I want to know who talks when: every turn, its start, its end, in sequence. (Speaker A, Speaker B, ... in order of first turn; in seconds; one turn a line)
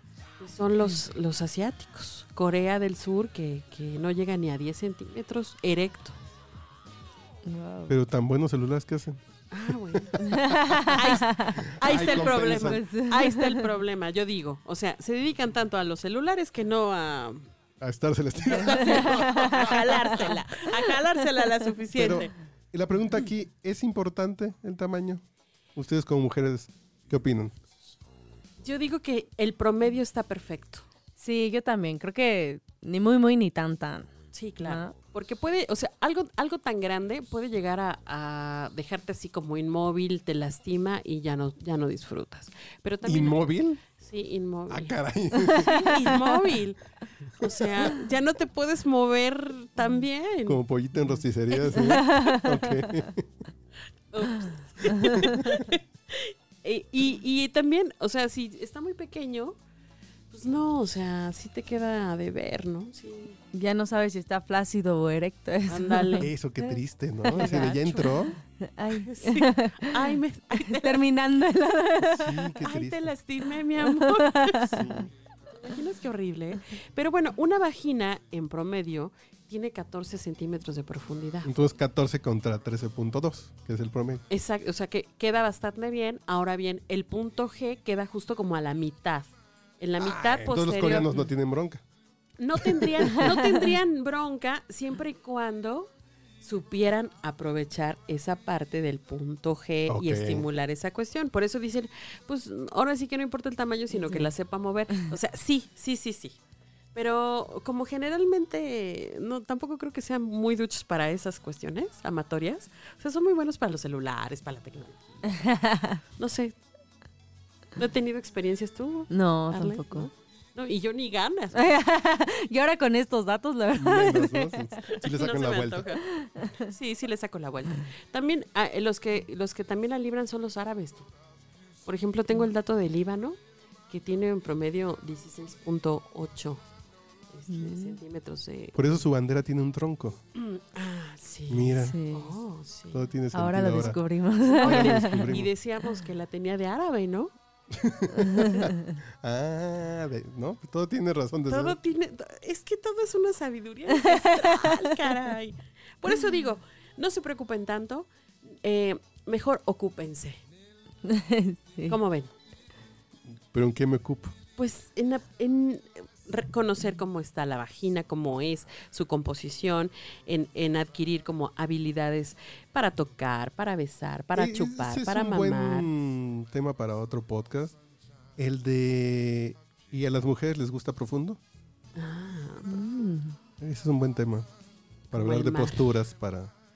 Speaker A: 0.4-6.2
Speaker B: 7.4-7.9
Speaker C: 7.9-10.8
Speaker A: 9.5-17.5
Speaker B: 10.2-13.6
Speaker C: 11.7-12.8
Speaker C: 17.8-20.2
Speaker A: 18.4-22.3
Speaker B: 18.7-19.8
Speaker C: 21.9-25.2
Speaker C: 25.7-27.5
Speaker A: 28.6-30.9
Speaker B: 31.2-34.1
Speaker A: 34.3-46.8
Speaker B: 34.6-34.9
Speaker C: 43.0-43.8
Speaker C: 44.7-46.0
Speaker B: 45.4-45.8
Speaker A: 47.4-50.6
Speaker C: 50.5-53.4
Speaker A: 51.5-52.0
Speaker B: 51.7-52.9
Speaker A: 54.1-59.6
Speaker B: 55.0-55.4
Speaker A: 60.3-63.4
Speaker B: 63.5-66.3
Speaker A: 65.7-66.3
Speaker C: 66.2-68.4
Speaker A: 67.3-71.0
Speaker B: 68.8-72.5
Speaker C: 72.0-73.1
Speaker A: 72.5-81.5
Speaker B: 73.8-74.9
Speaker C: 74.7-75.1
Speaker C: 81.4-84.2
Speaker A: 84.3-91.1
Speaker C: 90.0-91.8
Speaker A: 92.4-106.4
Speaker C: 92.6-93.3
Speaker C: 99.9-100.5
Speaker A: 106.9-115.4
Speaker B: 115.3-116.0
Speaker A: 116.2-116.6
Speaker A: 117.8-121.7
Speaker B: 119.1-120.1
Speaker B: 121.5-124.7
Speaker C: 123.7-125.9
Speaker A: 124.9-126.0
Speaker B: 126.0-126.7
Speaker A: 126.5-131.1
Speaker A: 131.8-133.4
Speaker A: 133.9-136.6
Speaker A: 137.3-139.0
Speaker B: 137.5-138.0
Speaker C: 138.7-140.2
Speaker A: 140.3-143.1
Speaker C: 141.5-142.0
Speaker B: 141.8-142.3
Speaker C: 142.9-144.0
Speaker B: 143.3-145.4
Speaker A: 144.5-147.3
Speaker C: 144.6-145.5
Speaker C: 147.7-151.8
Speaker B: 148.2-148.9
Speaker A: 151.5-158.1
Speaker B: 154.0-154.8
Speaker A: 158.6-160.4
Speaker B: 161.0-161.9
Speaker A: 161.8-162.3
Speaker C: 163.5-164.3
Speaker A: 164.6-175.9
Speaker C: 174.3-177.8
Speaker C: 178.4-181.4
Speaker A: 181.9-182.9
Speaker B: 182.7-183.3
Speaker C: 183.6-184.5
Speaker A: 185.1-185.9
Speaker C: 185.1-186.5